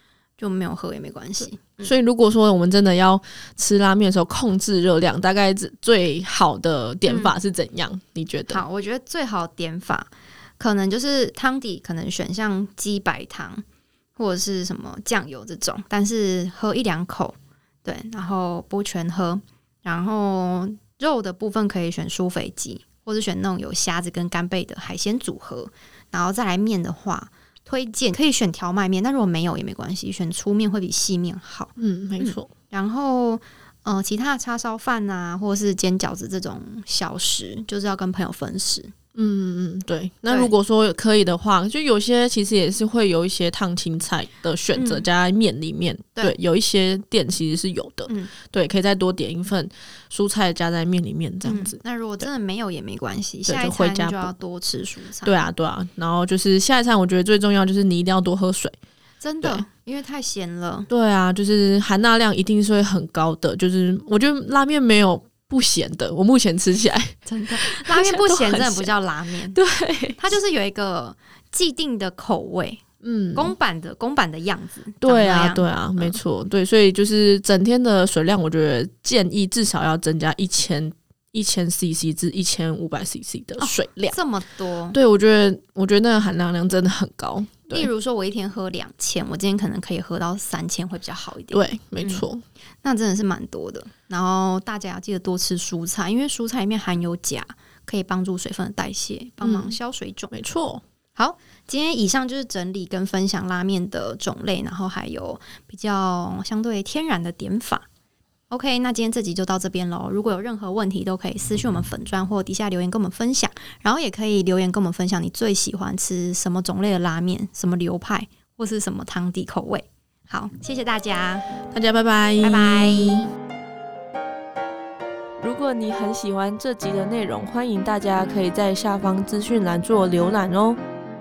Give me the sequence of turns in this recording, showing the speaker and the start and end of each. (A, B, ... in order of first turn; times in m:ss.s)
0:00.4-0:01.9 A
0:01.6-0:08.6 B
0:07.1-0:07.4 A
0:08.5-0:13.6 A
0:14.2-0:38.9 A
0:31.8-0:32.5 B
0:39.2-0:52.3 B
0:40.3-0:40.5 A
0:44.7-0:45.1 A
0:48.1-0:48.3 A
0:51.4-0:55.4 A
0:53.4-0:54.3 B
0:55.2-0:58.8 B
0:59.2-1:00.9 A
1:00.9-1:08.9 B
1:07.3-1:09.6 A
1:09.5-1:10.2 B
1:10.2-1:12.8 A
1:13.0-1:13.5 B
1:13.4-1:16.2 A
1:15.0-1:24.2 B
1:23.6-1:25.0 A
1:24.9-1:27.9 B
1:27.7-1:32.2 A
1:31.5-1:32.4 B
1:32.8-1:40.3 A
1:39.4-1:39.8 B
1:40.3-1:40.8 B
1:41.2-1:47.9 A
1:48.5-2:01.5 A
2:01.7-2:03.3 B
2:02.4-2:03.3 A
2:05.4-2:10.8 C